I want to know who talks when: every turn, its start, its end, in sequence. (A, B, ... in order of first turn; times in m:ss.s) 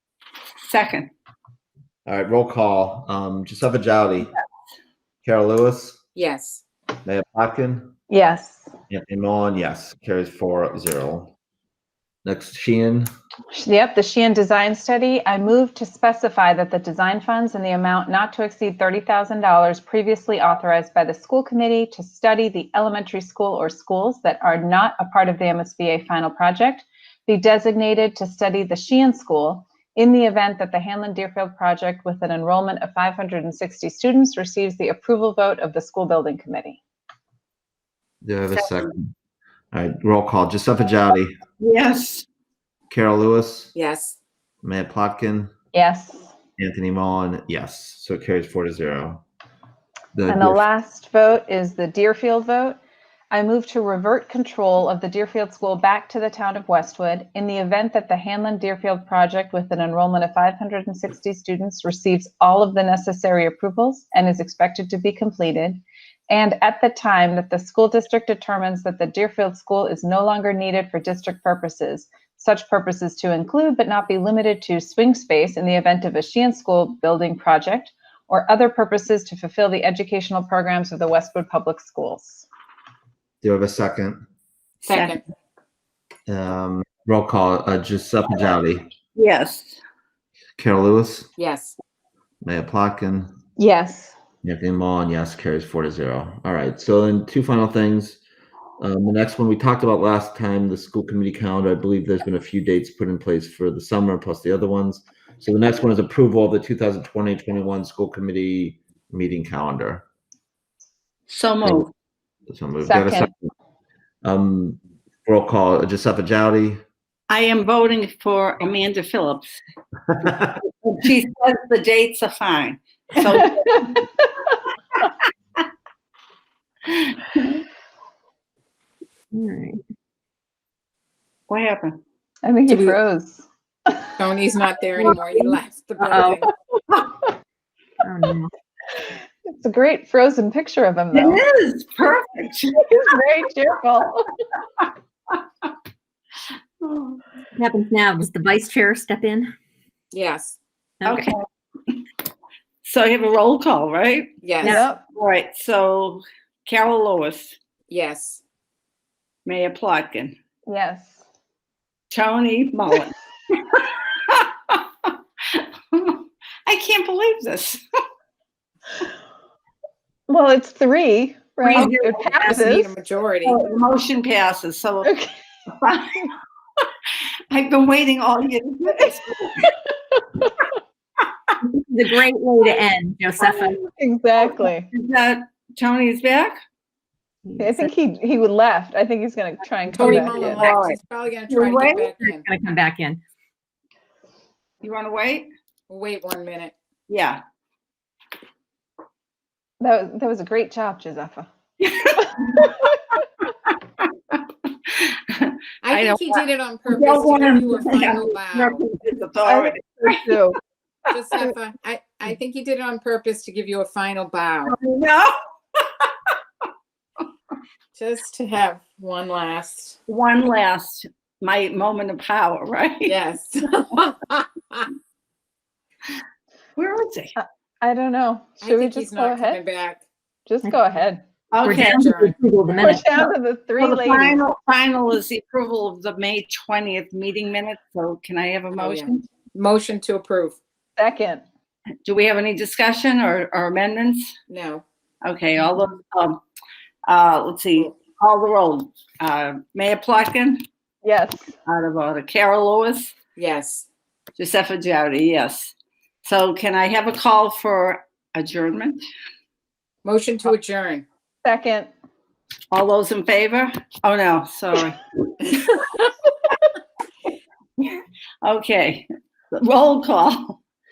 0:00.6-0:01.1 A
0:02.1-0:04.3 B
0:05.2-0:06.0 B
0:06.2-0:06.6 C
0:07.0-0:07.9 B
0:08.1-0:08.7 D
0:08.9-0:11.3 B
0:12.2-0:13.1 B
0:13.5-0:36.8 D
0:38.2-0:39.1 B
0:38.5-0:38.9 A
0:39.7-0:41.4 B
0:41.6-0:42.3 A
0:42.9-0:43.7 B
0:43.8-0:44.2 C
0:44.6-0:45.5 B
0:45.7-0:46.3 D
0:46.6-0:49.2 B
0:50.2-0:50.6 B
0:50.3-0:52.8 D
0:53.3-1:22.5 D
1:23.4-1:24.2 B
1:24.8-1:25.2 A
1:24.8-1:25.2 C
1:26.3-1:28.9 B
1:29.2-1:29.8 A
1:30.6-1:31.3 B
1:31.4-1:31.8 C
1:32.4-1:33.3 B
1:33.6-1:34.1 D
1:34.4-1:38.2 B
1:38.8-1:50.0 B
1:51.3-1:51.9 A
1:52.5-1:53.4 B
1:52.8-1:53.3 D
1:54.2-1:56.8 B
1:57.3-1:59.6 A
2:00.3-2:03.9 A
2:06.9-2:07.6 A
2:09.3-2:09.8 E
2:11.5-2:12.0 A
2:12.4-2:14.1 D
2:12.7-2:13.0 C
2:14.2-2:16.5 C
2:16.0-2:16.4 E
2:18.0-2:18.5 E
2:19.5-2:21.4 D
2:21.1-2:22.9 A
2:22.8-2:24.4 D
2:26.8-2:27.2 A
2:27.6-2:29.5 E
2:30.1-2:30.6 C
2:31.0-2:31.3 E
2:31.0-2:32.0 A
2:32.8-2:34.4 A
2:34.4-2:34.8 C
2:34.6-2:35.0 D
2:35.1-2:37.5 A
2:37.9-2:38.4 C
2:39.4-2:40.4 A
2:40.7-2:41.2 D
2:42.1-2:47.8 A
2:50.3-2:52.9 D
2:51.6-2:52.6 E
2:51.7-2:52.1 A
2:52.4-2:53.6 C
2:53.4-2:55.1 A
2:55.0-2:55.4 D
2:55.7-2:56.3 A
2:57.5-2:59.7 A
3:01.6-3:03.9 E
3:04.0-3:04.9 D
3:04.9-3:06.6 A
3:07.5-3:07.9 E
3:07.6-3:10.6 D
3:09.9-3:12.4 C
3:09.9-3:11.0 A
3:11.5-3:12.1 A
3:12.2-3:13.2 E
3:14.8-3:15.5 A
3:15.9-3:16.7 C
3:17.1-3:17.4 A
3:19.8-3:21.5 D
3:21.8-3:22.9 A
3:22.4-3:22.6 D
3:24.3-3:30.4 A
3:25.8-3:28.8 C
3:29.5-3:30.6 D
3:31.1-3:34.8 C
3:34.6-3:36.1 A
3:38.0-3:40.0 C
3:40.1-3:43.2 A
3:43.0-3:44.9 C
3:46.8-3:47.4 A
3:47.4-3:49.6 D
3:48.6-3:50.0 C
3:50.5-3:51.2 D
3:51.5-3:52.1 A
3:51.6-3:53.3 E
3:51.7-3:52.4 C
3:52.8-3:54.4 D
3:53.8-3:59.2 A
3:58.8-4:00.6 C
4:01.0-4:01.4 D
4:02.0-4:04.3 A
4:04.5-4:04.8 C
4:05.2-4:06.4 A
4:07.1-4:10.6 A
4:11.0-4:11.5 D
4:11.7-4:13.2 A
4:13.4-4:13.9 C
4:14.4-4:15.7 A
4:16.2-4:19.0 A
4:20.0-4:21.0 C
4:21.4-4:21.9 D
4:22.7-4:25.0 A
4:27.8-4:30.6 A